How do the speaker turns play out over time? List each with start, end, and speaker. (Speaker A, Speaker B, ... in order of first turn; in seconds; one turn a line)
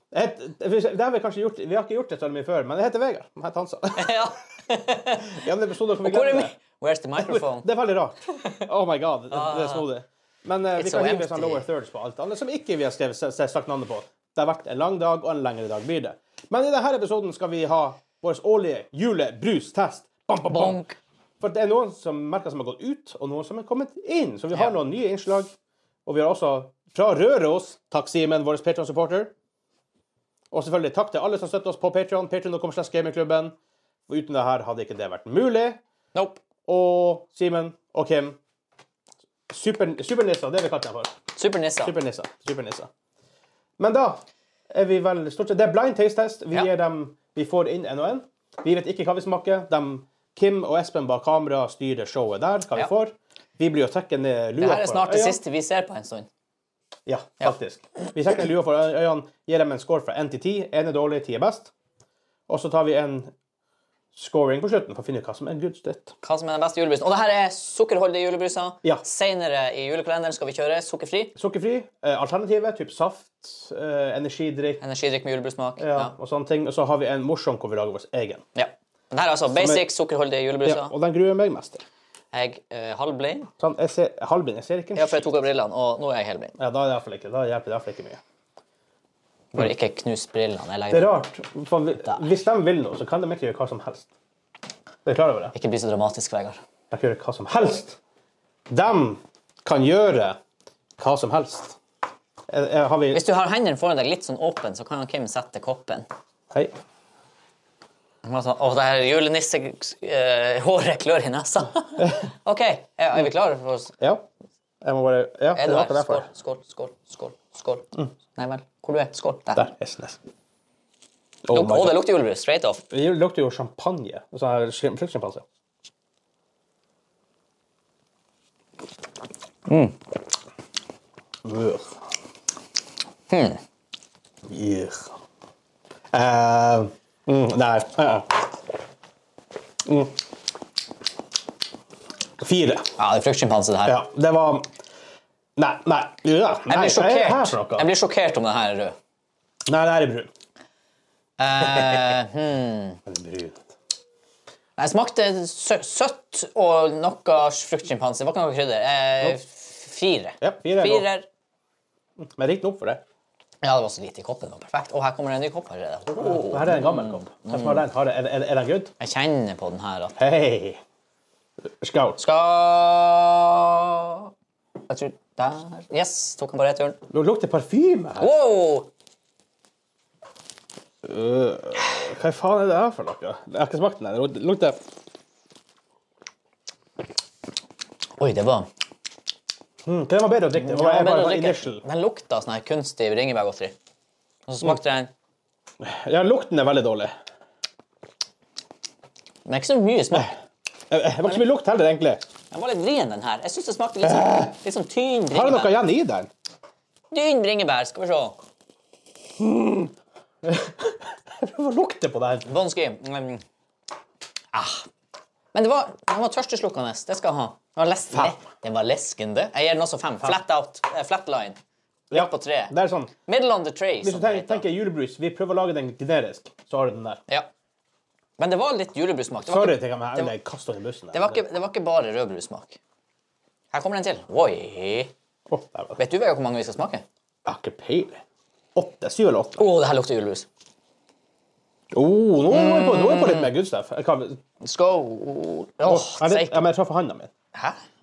Speaker A: 0.1-4.2
Speaker B: 4.0-5.4
Speaker A: 5.3-6.5
Speaker B: 6.0-7.7
Speaker A: 7.2-20.8
Speaker B: 8.3-8.6
Speaker B: 9.3-9.8
Speaker B: 10.7-11.7
Speaker B: 20.5-21.0
Speaker A: 21.4-25.5
Speaker A: 26.1-29.3
Speaker A: 30.5-33.5
Speaker A: 34.1-35.8
Speaker B: 36.1-36.4
Speaker A: 36.7-38.4
Speaker A: 39.5-41.1
Speaker B: 41.4-42.0
Speaker A: 41.8-42.9
Speaker A: 43.8-55.4
Speaker B: 54.5-56.3
Speaker A: 57.0-61.7
Speaker A: 62.5-63.3
Speaker A: 64.1-66.1
Speaker B: 66.2-71.3
Speaker A: 71.3-74.8
Speaker B: 74.8-76.1
Speaker A: 75.8-78.4
Speaker B: 78.5-80.9
Speaker A: 79.5-79.8
Speaker A: 80.6-81.8
Speaker B: 82.3-83.5
Speaker A: 83.6-85.3
Speaker B: 84.9-86.5
Speaker A: 86.6-88.2
Speaker B: 89.5-91.2
Speaker A: 90.9-94.1
Speaker A: 95.0-95.5
Speaker B: 95.5-96.6
Speaker A: 96.9-98.0
Speaker A: 98.7-100.4
Speaker A: 101.0-101.8
Speaker A: 102.5-103.2
Speaker B: 103.1-106.1
Speaker B: 108.2-113.9
Speaker A: 114.8-116.3
Speaker B: 115.5-119.6
Speaker A: 119.5-120.2
Speaker A: 121.4-122.1
Speaker B: 121.5-122.8
Speaker A: 122.9-125.4
Speaker B: 129.7-129.9
Speaker A: 131.4-131.8
Speaker B: 133.3-133.6
Speaker A: 134.5-135.1
Speaker A: 136.1-138.3
Speaker A: 139.8-140.1
Speaker A: 142.4-142.8
Speaker B: 143.0-144.0
Speaker A: 143.8-144.7
Speaker A: 145.6-147.9
Speaker B: 146.7-148.9
Speaker A: 149.7-150.3
Speaker B: 151.4-153.0
Speaker A: 153.1-153.6
Speaker B: 154.8-161.3
Speaker A: 160.4-161.1
Speaker A: 162.2-163.0
Speaker B: 163.6-167.8
Speaker A: 166.2-168.9
Speaker B: 169.0-170.1
Speaker A: 170.2-170.8
Speaker A: 171.8-172.2
Speaker B: 172.2-174.3
Speaker B: 174.9-177.0
Speaker A: 177.1-178.3
Speaker B: 178.2-178.9
Speaker A: 181.0-184.8
Speaker B: 188.2-188.7
Speaker A: 189.8-191.8
Speaker B: 190.5-193.7
Speaker B: 194.5-195.1
Speaker A: 195.8-197.1
Speaker B: 199.4-200.3
Speaker A: 200.9-202.2
Speaker B: 202.5-205.8
Speaker A: 204.0-204.5
Speaker A: 205.3-206.3
Speaker B: 207.1-208.4
Speaker A: 209.4-209.9
Speaker A: 210.4-212.4
Speaker B: 212.4-213.4
Speaker B: 214.5-214.9
Speaker B: 215.5-221.6
Speaker B: 222.1-222.7
Speaker A: 222.1-223.1
Speaker B: 223.2-224.7
Speaker A: 224.0-227.2
Speaker B: 228.4-230.3
Speaker A: 229.4-231.5
Speaker B: 231.1-232.8
Speaker B: 233.7-235.1
Speaker A: 235.5-236.0
Speaker B: 236.0-237.0
Speaker A: 237.4-238.2
Speaker A: 238.7-239.7
Speaker B: 239.6-240.4
Speaker A: 241.9-244.4
Speaker B: 242.5-243.5
Speaker B: 244.6-246.6
Speaker A: 245.8-247.3